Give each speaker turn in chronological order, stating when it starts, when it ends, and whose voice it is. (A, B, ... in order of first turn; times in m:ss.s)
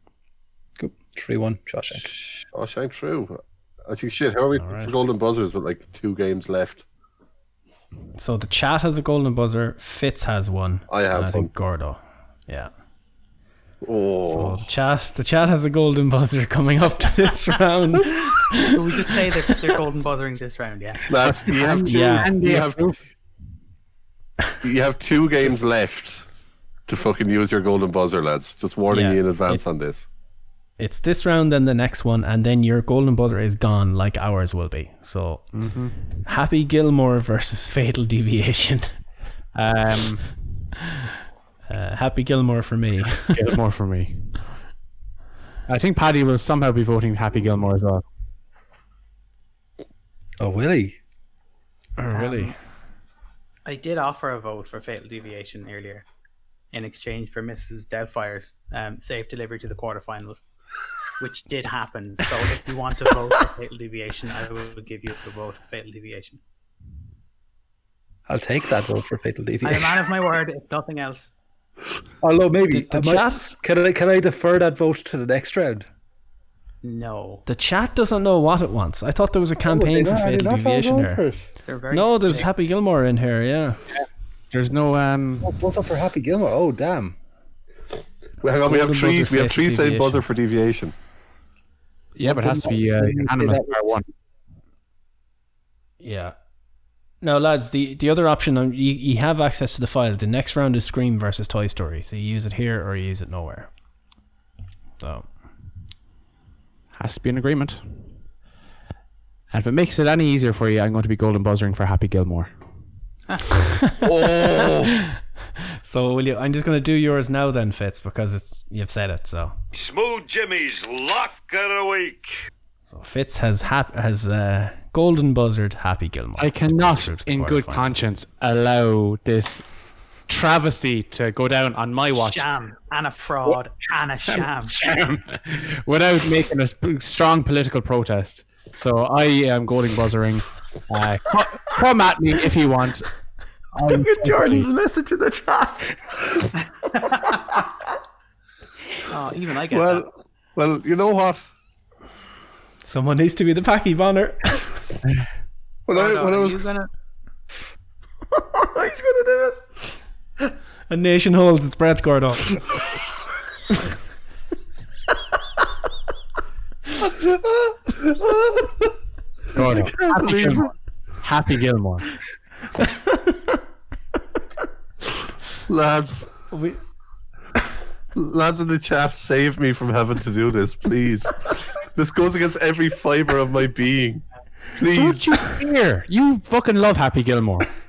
0:00.8-0:02.1 A
0:02.4-0:06.8 B
0:04.6-0:04.9 C
0:08.1-0:12.7 C
0:10.9-0:11.5 B
0:13.8-0:14.6 B
0:14.3-0:19.6 C
0:18.7-0:21.1 D
0:21.1-0:22.9 B
0:21.3-0:23.0 E
0:21.8-0:22.3 C
0:24.6-0:26.2 B
0:26.9-0:30.0 B
0:28.9-0:29.6 C
0:30.8-0:35.6 C
0:35.5-0:36.0 E
0:36.2-0:38.9 C
0:39.5-0:40.3 E
0:41.7-0:43.4 C
0:43.3-0:44.4 E
0:45.7-0:48.0 E
0:50.4-0:51.0 A
0:52.0-0:52.5 C
0:52.1-0:52.5 D
0:53.6-0:56.0 D
0:56.7-1:00.4 D
1:01.2-1:06.4 D
1:08.3-1:10.1 A
1:09.6-1:11.3 D
1:12.2-1:15.8 A
1:12.7-1:13.5 C
1:16.8-1:17.4 D
1:17.4-1:21.2 C
1:19.6-1:21.4 A
1:21.6-1:22.5 D
1:21.9-1:23.8 C
1:24.0-1:25.5 E
1:25.4-1:27.2 A
1:28.4-1:30.9 B
1:28.6-1:30.2 C
1:32.1-1:34.0 E
1:32.2-1:34.0 A
1:36.0-1:36.3 C
1:37.2-1:43.7 C
1:45.0-1:45.3 C
1:46.9-1:48.2 E
1:49.5-1:52.5 E
1:54.0-1:54.9 B
1:55.8-1:59.6 C
1:59.7-2:02.3 F
2:02.9-2:07.9 C
2:06.4-2:09.6 E
2:10.3-2:12.5 E
2:12.1-2:14.8 D
2:14.3-2:23.1 E
2:23.8-2:24.7 E
2:23.9-2:26.0 C
2:26.9-2:27.6 D
2:27.0-2:27.3 C
2:29.1-2:30.1 D
2:29.7-2:31.4 B
2:32.8-2:34.6 C
2:35.9-2:36.6 B
2:35.9-2:36.9 D
2:38.3-2:39.7 C
2:40.4-2:42.8 C
2:49.5-2:50.7 E
2:49.6-2:50.7 B
2:51.2-2:52.1 E
2:55.7-2:56.3 B
2:56.5-2:56.8 C
2:58.1-3:04.2 B
3:04.8-3:05.5 B
3:04.8-3:07.7 E